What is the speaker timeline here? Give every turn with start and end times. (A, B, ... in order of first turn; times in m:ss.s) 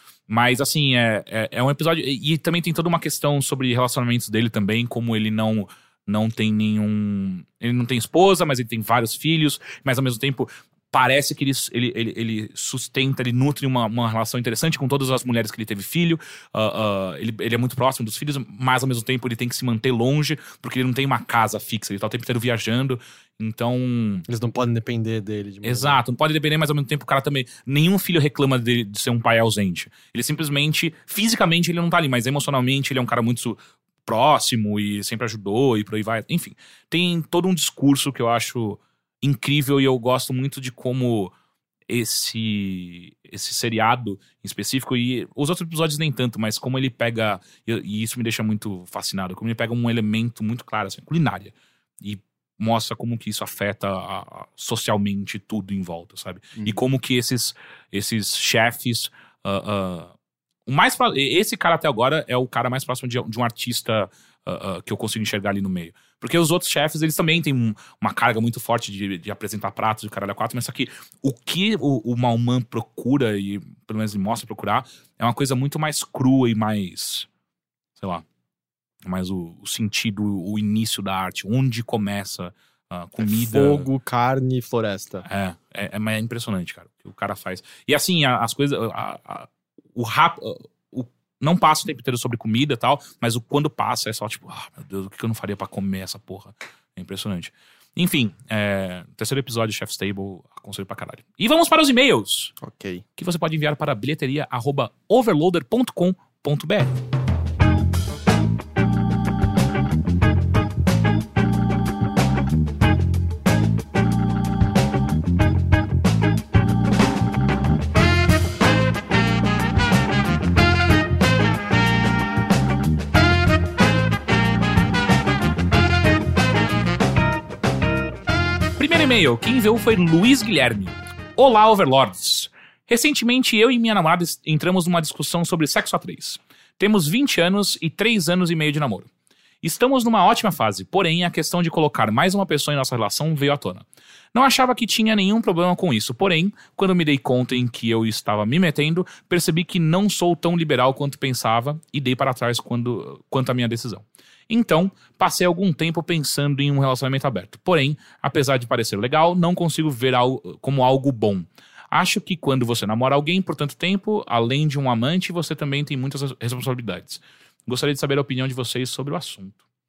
0:00.3-0:24.2 A
0:24.3-0:26.0 B
0:25.6-0:41.3 A
0:41.9-1:00.1 A
1:00.7-1:17.3 A
1:18.0-1:18.2 A
1:19.0-1:23.9 A
1:23.2-1:25.2 B
1:25.3-1:42.6 A
1:42.6-1:43.0 B
1:43.2-1:47.0 A
2:08.8-2:19.1 A
2:19.6-2:49.6 A